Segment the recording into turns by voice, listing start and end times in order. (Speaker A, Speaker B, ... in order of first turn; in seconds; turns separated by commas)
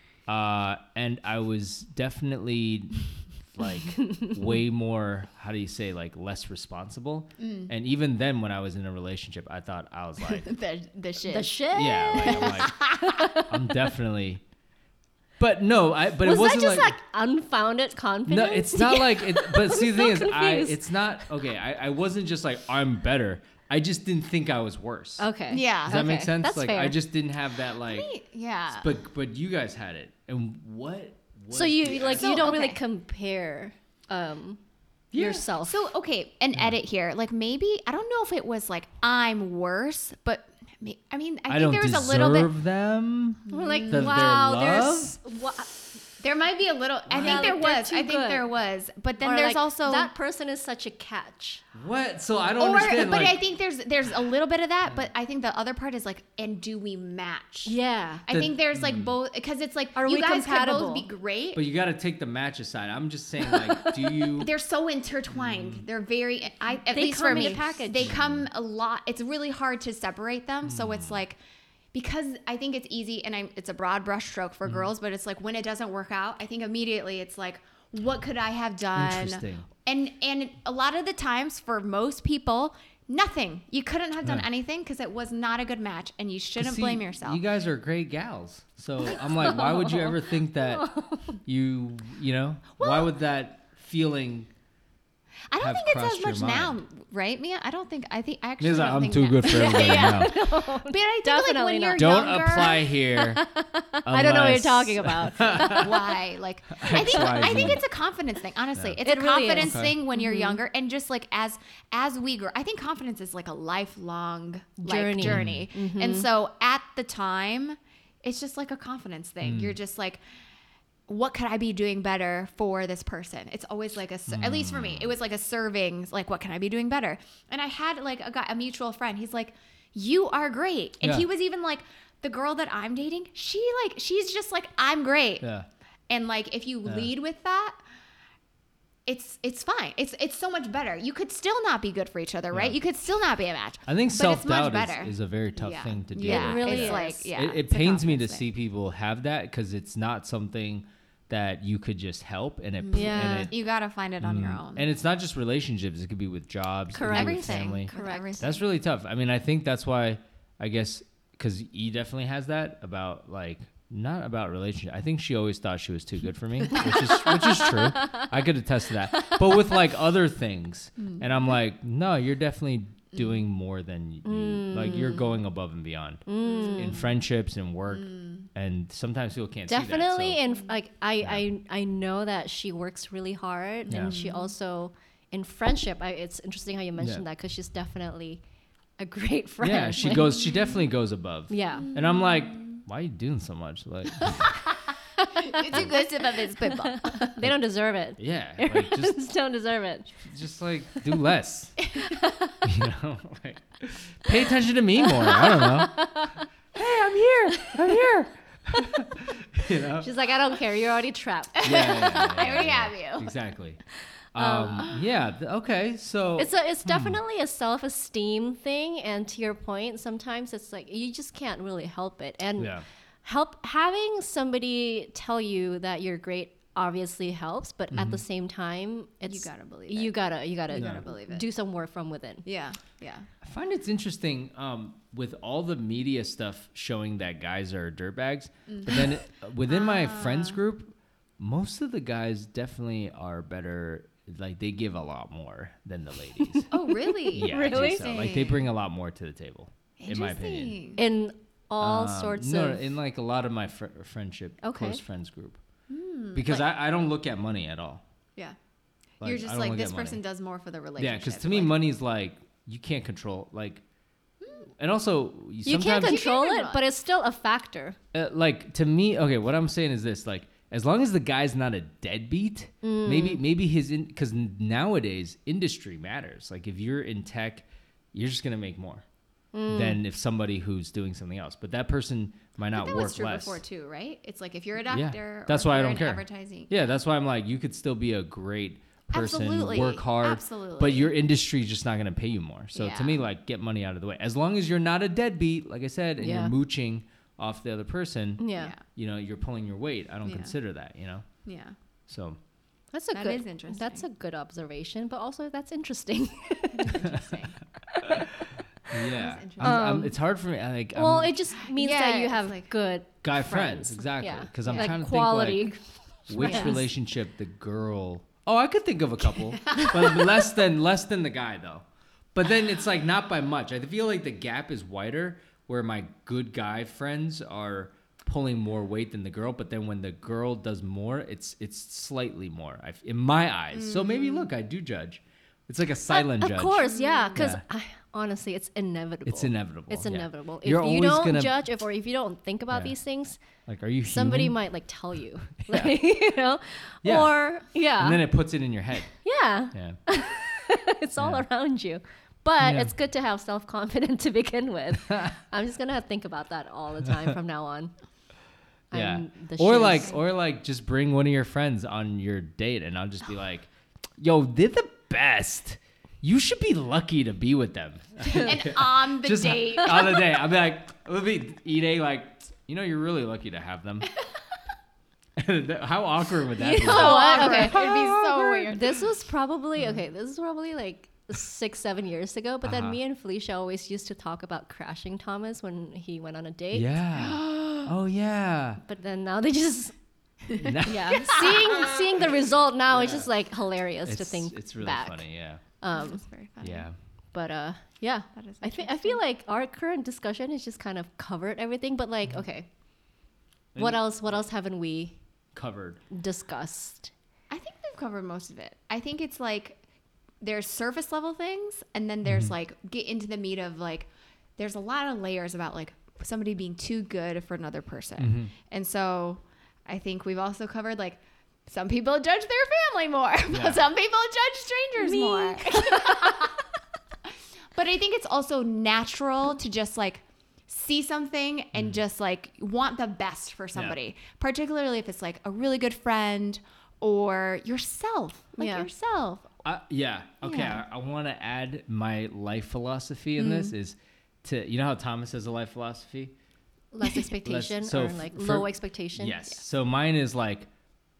Speaker A: 0.3-10.5, Speaker B: 4.0-4.3, Speaker C: 7.4-7.7, Speaker C: 10.3-13.3, Speaker B: 11.3-13.5, Speaker A: 11.7-12.8, Speaker A: 13.5-14.4, Speaker A: 15.4-16.9, Speaker B: 16.2-20.8, Speaker A: 18.3-25.2, Speaker B: 25.2-27.0, Speaker C: 25.5-26.0, Speaker A: 25.8-28.1, Speaker C: 27.8-28.9, Speaker A: 28.7-32.5, Speaker B: 31.5-34.6, Speaker C: 32.0-32.8, Speaker A: 35.1-35.4, Speaker B: 35.1-35.9, Speaker C: 35.5-42.5, Speaker A: 41.5-45.2, Speaker C: 43.5-44.2, Speaker B: 43.5-45.7, Speaker C: 46.2-50.1, Speaker A: 47.1-47.5, Speaker B: 47.1-48.5, Speaker B: 49.2-51.6, Speaker A: 51.7-53.4, Speaker C: 52.6-57.7, Speaker B: 57.6-58.2, Speaker C: 58.2-61.6, Speaker A: 58.3-59.1, Speaker B: 59.9-61.0, Speaker A: 61.5-64.5, Speaker B: 63.4-64.2, Speaker C: 64.3-71.4, Speaker A: 65.3-65.8, Speaker B: 66.9-68.1, Speaker A: 68.0-68.5, Speaker A: 70.6-71.2, Speaker C: 71.9-87.4, Speaker A: 78.9-79.7, Speaker A: 86.6-90.9, Speaker B: 89.2-91.4, Speaker A: 91.4-94.5, Speaker C: 92.8-93.1, Speaker C: 95.5-102.9, Speaker A: 95.6-96.8, Speaker A: 98.6-100.3, Speaker B: 99.4-105.9, Speaker A: 101.9-103.4, Speaker A: 104.0-106.1, Speaker C: 105.6-120.2, Speaker A: 106.8-107.8, Speaker B: 107.3-107.7, Speaker B: 109.0-110.6, Speaker A: 109.6-110.0, Speaker B: 114.8-116.3, Speaker A: 115.2-115.7, Speaker A: 119.4-119.8, Speaker C: 121.1-135.4, Speaker A: 124.3-125.1, Speaker A: 131.0-131.3, Speaker A: 135.4-135.7, Speaker C: 136.1-137.8, Speaker A: 136.8-137.1, Speaker C: 139.1-148.5, Speaker A: 142.5-142.8, Speaker A: 143.9-153.5, Speaker B: 146.2-147.3, Speaker C: 152.8-154.8, Speaker B: 152.9-153.5, Speaker A: 154.2-180.4, Speaker B: 156.9-158.4, Speaker C: 157.1-158.6, Speaker B: 166.9-168.3, Speaker B: 169.1-169.8, Speaker C: 171.0-171.3, Speaker B: 174.2-175.3, Speaker B: 176.3-177.0, Speaker C: 176.4-177.1, Speaker C: 177.9-178.5, Speaker B: 179.7-188.4, Speaker C: 183.8-184.5, Speaker A: 183.9-184.2, Speaker B: 189.0-190.6, Speaker A: 189.6-194.6, Speaker B: 191.5-191.9, Speaker C: 191.8-192.8, Speaker B: 195.2-200.1, Speaker C: 195.2-197.3, Speaker A: 198.2-199.2, Speaker A: 200.2-201.8, Speaker C: 201.8-202.2, Speaker B: 202.0-202.6, Speaker A: 202.6-210.1, Speaker B: 205.1-206.4, Speaker B: 208.8-209.0, Speaker B: 210.0-211.8, Speaker C: 211.6-213.3, Speaker A: 211.6-213.8, Speaker A: 214.3-217.2, Speaker B: 214.4-214.9, Speaker B: 216.4-232.4, Speaker A: 222.6-222.8, Speaker A: 227.9-228.2, Speaker C: 229.3-231.4, Speaker A: 230.7-231.0, Speaker C: 232.4-233.3, Speaker A: 233.4-246.7, Speaker C: 238.7-239.1, Speaker C: 239.6-240.6, Speaker C: 246.7-248.7, Speaker B: 247.3-248.2, Speaker A: 247.3-250.8, Speaker C: 250.0-251.0, Speaker B: 250.9-252.9, Speaker A: 251.8-255.6, Speaker B: 254.6-255.0, Speaker C: 255.9-256.7, Speaker A: 256.3-258.0, Speaker C: 259.2-261.8, Speaker A: 259.2-260.2, Speaker A: 261.0-263.8, Speaker C: 264.4-264.7, Speaker A: 264.8-266.2, Speaker B: 265.6-268.0, Speaker C: 265.8-266.8, Speaker A: 268.1-279.0, Speaker B: 272.8-273.4, Speaker B: 279.5-280.0, Speaker A: 279.7-283.6, Speaker C: 282.7-286.9, Speaker A: 284.9-301.2, Speaker C: 289.1-291.1, Speaker C: 292.7-293.2, Speaker B: 296.2-296.5, Speaker B: 298.4-298.7, Speaker C: 298.6-298.8, Speaker C: 300.2-300.5, Speaker C: 301.4-301.7, Speaker A: 302.1-302.4, Speaker B: 302.9-307.1, Speaker C: 303.1-304.1, Speaker C: 306.7-307.6, Speaker A: 308.0-311.4, Speaker C: 309.0-309.9, Speaker B: 309.6-310.1, Speaker B: 310.9-315.8, Speaker C: 311.6-312.7, Speaker A: 313.2-315.7, Speaker C: 314.7-314.9, Speaker A: 316.3-337.6, Speaker C: 316.4-316.9, Speaker B: 316.4-316.8, Speaker C: 319.6-320.4, Speaker C: 333.7-334.5, Speaker B: 336.1-343.4, Speaker C: 336.9-337.4, Speaker A: 339.2-341.6, Speaker A: 343.7-344.6, Speaker B: 344.1-348.3, Speaker A: 345.7-345.9, Speaker A: 347.0-349.1, Speaker B: 349.2-357.9, Speaker A: 349.7-350.0, Speaker A: 351.2-351.4, Speaker A: 352.6-352.9, Speaker B: 358.9-360.1, Speaker A: 358.9-374.1, Speaker C: 368.2-370.4, Speaker A: 375.4-378.3, Speaker B: 376.6-387.0, Speaker C: 376.7-379.0, Speaker A: 382.6-383.0, Speaker A: 386.7-388.8, Speaker C: 387.2-387.8, Speaker B: 388.8-389.9, Speaker A: 390.5-391.8, Speaker C: 390.5-391.5, Speaker B: 390.8-395.2, Speaker A: 392.9-393.3, Speaker A: 394.0-395.6, Speaker B: 395.8-396.2, Speaker C: 395.9-396.9, Speaker A: 396.6-396.9, Speaker B: 397.3-402.7, Speaker C: 398.3-399.2, Speaker A: 403.7-404.4, Speaker B: 403.8-405.1, Speaker A: 405.5-406.0, Speaker B: 406.1-407.1, Speaker C: 407.5-409.8, Speaker C: 410.4-426.6, Speaker A: 412.2-412.5, Speaker A: 418.2-418.5, Speaker A: 423.5-423.8, Speaker B: 425.0-426.5, Speaker C: 427.7-439.6, Speaker A: 431.7-432.0, Speaker B: 438.6-438.9, Speaker A: 439.6-446.3, Speaker C: 440.4-440.7, Speaker C: 443.4-443.7, Speaker B: 446.9-449.4, Speaker A: 447.4-450.7